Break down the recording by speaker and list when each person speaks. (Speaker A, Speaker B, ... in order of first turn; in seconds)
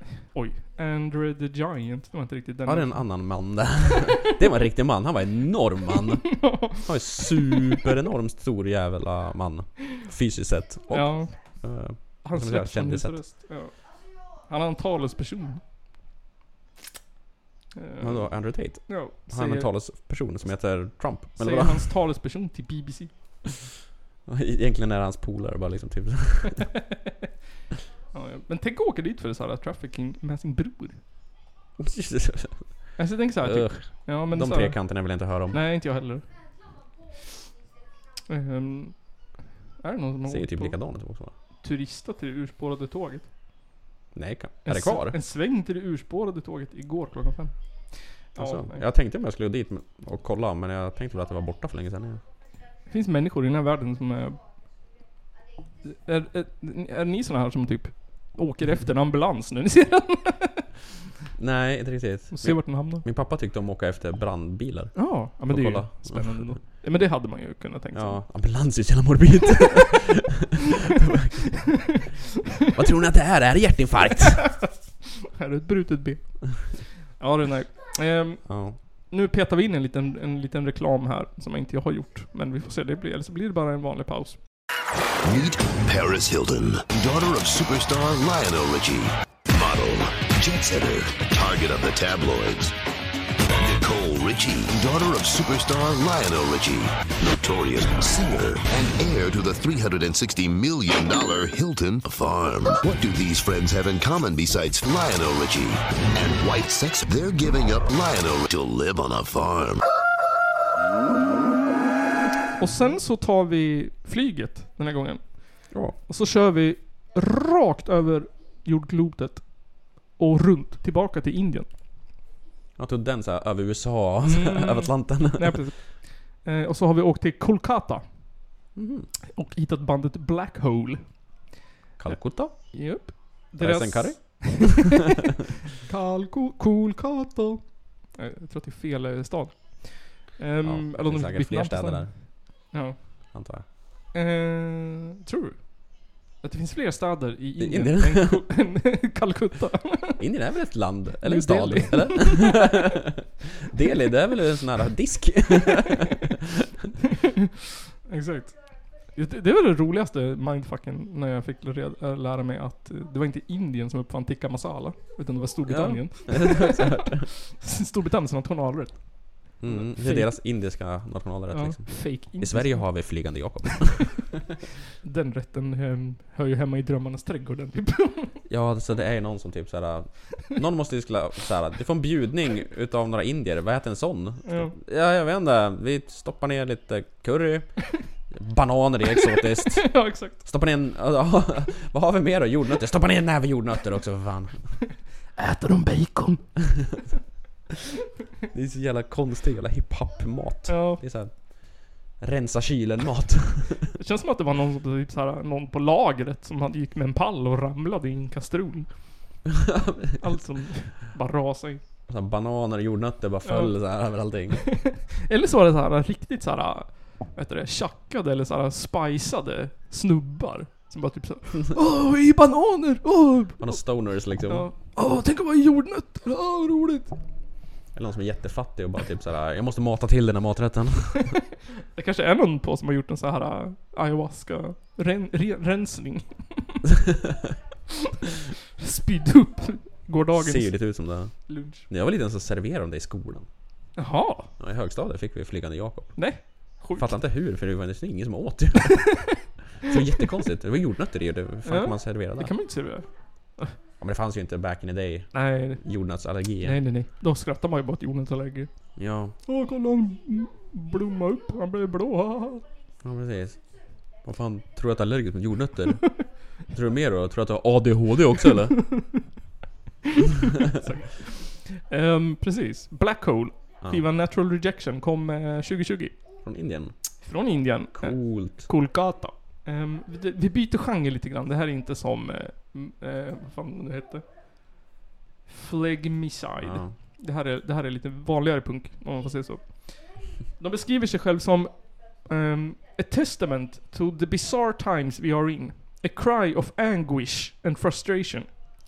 Speaker A: 0.3-2.9, 6.3-6.8, 10.9-11.4, 12.2-13.8, 14.4-15.6, 17.8-18.3, 18.9-19.7, 21.4-23.1, 28.1-31.0, 33.0-36.3, 38.3-39.0, 39.8-40.8, 41.6-43.3, 44.6-47.5, 48.3-48.8, 52.9-54.4, 55.9-60.6, 62.3-63.0, 65.0-68.2, 74.2-84.4, 112.6-121.7, 124.3-128.1, 129.3-131.1, 132.7-134.8, 135.8-143.3, 144.1-150.2, 151.2-152.6, 158.1-158.6, 159.1-170.4, 171.5-173.1, 175.0-178.4, 184.5-184.7, 189.8-190.4, 195.4-196.4, 200.7-201.0, 204.0-208.9, 210.2-211.8, 213.4-213.7, 214.7-223.8, 224.5-227.2, 231.9-236.8, 238.8-240.9, 241.5-241.9, 244.0-244.5, 246.2-247.1, 251.7-253.8, 255.3-255.9, 256.6-258.7, 259.5-262.6, 270.6-276.2, 277.2-284.2, 285.5-290.1, 290.6-298.5
Speaker B: 2.7-13.2, 18.0-21.9, 24.3-26.6, 31.8-32.6, 33.4-35.6, 40.3-41.3, 44.1-45.2, 48.4-52.2, 61.4-66.6, 67.9-71.5, 72.7-74.5, 78.5-78.8, 122.8-125.6, 128.8-129.1, 132.0-132.6, 133.6-134.8, 140.6-142.2, 143.3-143.7, 147.6-148.4, 150.2-156.4, 165.7-167.3, 169.6-174.3, 178.5-194.8, 196.8-197.0, 198.5-203.9, 209.6-210.2, 212.1-214.7, 223.6-224.7, 227.9-231.4, 240.3-243.5, 244.6-246.3, 247.0-249.2, 249.8-252.5, 254.0-256.8, 259.0-259.4, 263.0-263.6, 264.2-266.1, 266.7-268.8, 276.4-276.9, 278.0-278.7, 286.6-286.9
Speaker C: 85.2-92.7, 93.5-109.8